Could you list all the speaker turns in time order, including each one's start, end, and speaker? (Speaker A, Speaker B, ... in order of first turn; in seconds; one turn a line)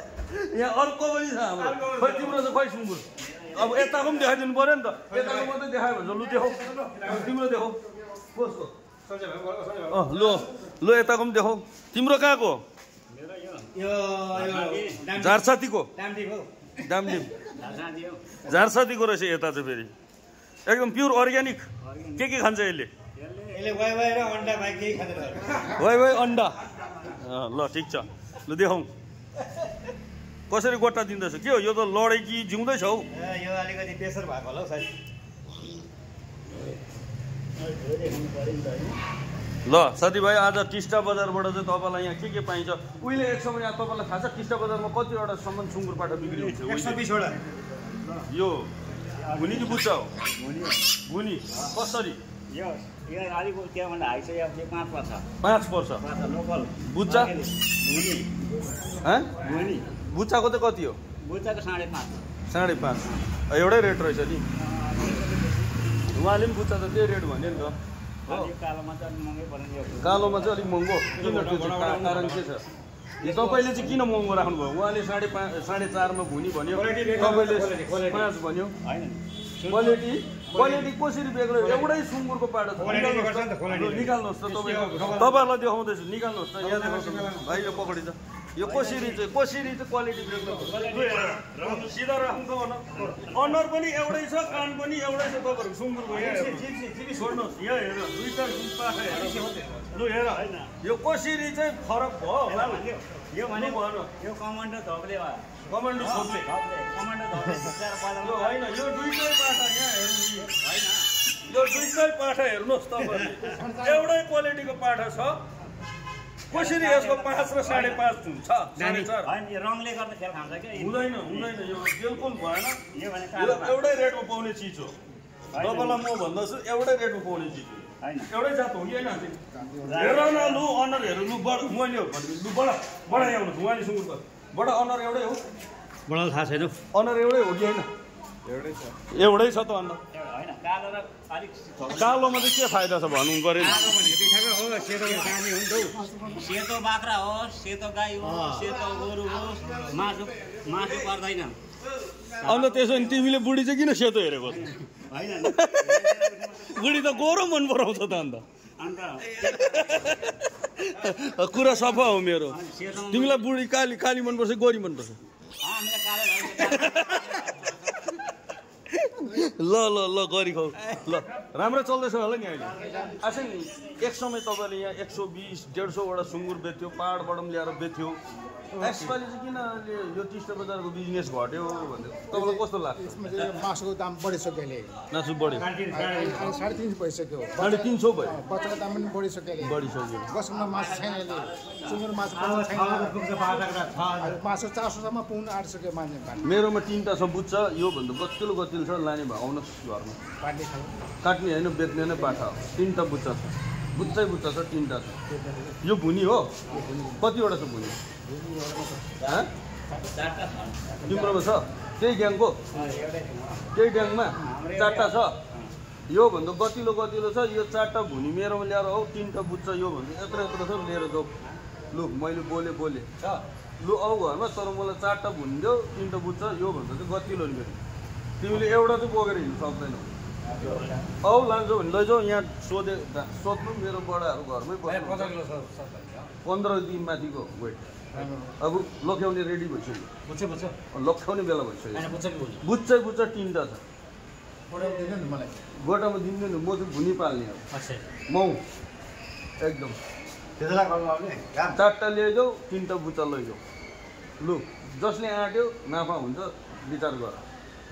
Speaker A: 0.3-7.8
Speaker A: 8.3-8.7
Speaker A: 9.9-12.6
Speaker B: 13.1-13.8
Speaker C: 13.8-15.4
Speaker B: 14.3-15.1
Speaker A: 15.1-15.9
Speaker C: 16.0-16.4
Speaker A: 16.8-17.3
Speaker B: 17.6-18.3
Speaker A: 18.4-19.9
Speaker A: 20.7-22.9
Speaker B: 21.8-22.3
Speaker B: 23.2-23.8
Speaker C: 23.5-25.6
Speaker A: 25.8-28.9
Speaker A: 30.5-33.1
Speaker C: 33.2-34.9
Speaker B: 37.6-39.0
Speaker A: 39.7-47.1
Speaker C: 46.7-47.4
Speaker A: 48.3-48.7
Speaker B: 49.2-50.8
Speaker A: 49.3-50.1
Speaker A: 51.0-52.2
Speaker B: 52.5-55.3
Speaker A: 55.4-56.0
Speaker B: 56.0-58.4
Speaker A: 56.8-57.3
Speaker A: 59.0-61.0
Speaker B: 59.4-59.9
Speaker B: 61.2-62.2
Speaker A: 62.5-64.4
Speaker B: 64.6-65.7
Speaker A: 66.1-67.8
Speaker B: 68.3-70.6
Speaker A: 70.0-72.6
Speaker B: 71.2-72.4
Speaker A: 73.2-78.8
Speaker B: 73.2-73.9
Speaker C: 76.9-78.0
Speaker B: 78.8-80.0
Speaker A: 79.7-102.8
Speaker D: 83.1-83.6
Speaker C: 83.4-83.8
Speaker D: 84.8-85.2
Speaker D: 86.6-87.8
Speaker B: 88.6-89.2
Speaker B: 90.5-91.9
Speaker B: 93.0-93.5
Speaker B: 96.1-97.4
Speaker B: 99.0-100.7
Speaker B: 102.5-108.7
Speaker A: 103.5-104.1
Speaker A: 105.7-106.5
Speaker A: 108.2-110.5
Speaker B: 110.4-111.1
Speaker A: 111.5-115.4
Speaker D: 113.4-114.2
Speaker B: 116.5-118.0
Speaker A: 116.5-119.3
Speaker B: 118.8-121.6
Speaker A: 120.8-122.8
Speaker B: 122.9-123.8
Speaker A: 123.4-125.0
Speaker B: 125.5-126.0
Speaker A: 125.5-129.4
Speaker B: 128.0-128.3
Speaker D: 129.5-130.2
Speaker B: 129.8-130.7
Speaker A: 129.9-135.4
Speaker C: 136.2-136.7
Speaker A: 136.9-137.9
Speaker A: 139.1-140.0
Speaker B: 140.1-142.5
Speaker A: 141.9-144.0
Speaker B: 143.6-145.4
Speaker C: 144.8-145.6
Speaker B: 146.3-151.6
Speaker B: 152.2-153.2
Speaker A: 152.4-154.7
Speaker B: 154.5-157.3
Speaker A: 155.4-156.2
Speaker A: 156.7-158.4
Speaker B: 158.8-160.2
Speaker A: 159.4-162.6
Speaker B: 161.6-163.5
Speaker A: 163.1-165.2
Speaker B: 165.6-167.7
Speaker A: 166.7-167.2
Speaker A: 168.9-178.2
Speaker D: 172.8-173.2
Speaker D: 178.7-179.2
Speaker A: 178.8-183.2
Speaker D: 182.3-185.0
Speaker A: 185.1-185.7
Speaker D: 185.8-193.4
Speaker B: 185.9-186.2
Speaker A: 187.6-188.4
Speaker A: 189.6-190.3
Speaker B: 190.8-191.5
Speaker C: 192.4-194.3
Speaker D: 194.2-196.6
Speaker A: 196.4-200.2
Speaker D: 200.4-201.0
Speaker A: 201.2-205.2
Speaker A: 205.8-206.6
Speaker A: 207.2-208.0
Speaker A: 209.2-209.5
Speaker B: 209.9-211.4
Speaker A: 211.1-212.6
Speaker B: 212.7-213.6
Speaker A: 213.7-215.4
Speaker B: 214.3-215.7
Speaker A: 216.1-221.3
Speaker A: 221.9-223.1
Speaker A: 223.8-227.8
Speaker A: 228.4-230.1
Speaker B: 230.5-231.0
Speaker A: 231.2-235.4
Speaker A: 236.4-237.9
Speaker D: 238.1-238.5
Speaker A: 238.6-240.1
Speaker B: 240.3-240.7
Speaker A: 240.9-242.1
Speaker B: 241.9-242.6
Speaker A: 242.6-243.8
Speaker D: 244.7-245.7
Speaker A: 245.8-247.7
Speaker B: 247.7-248.0
Speaker A: 248.3-248.6
Speaker A: 249.6-250.0
Speaker C: 250.6-251.7
Speaker A: 251.7-253.6
Speaker A: 254.4-257.4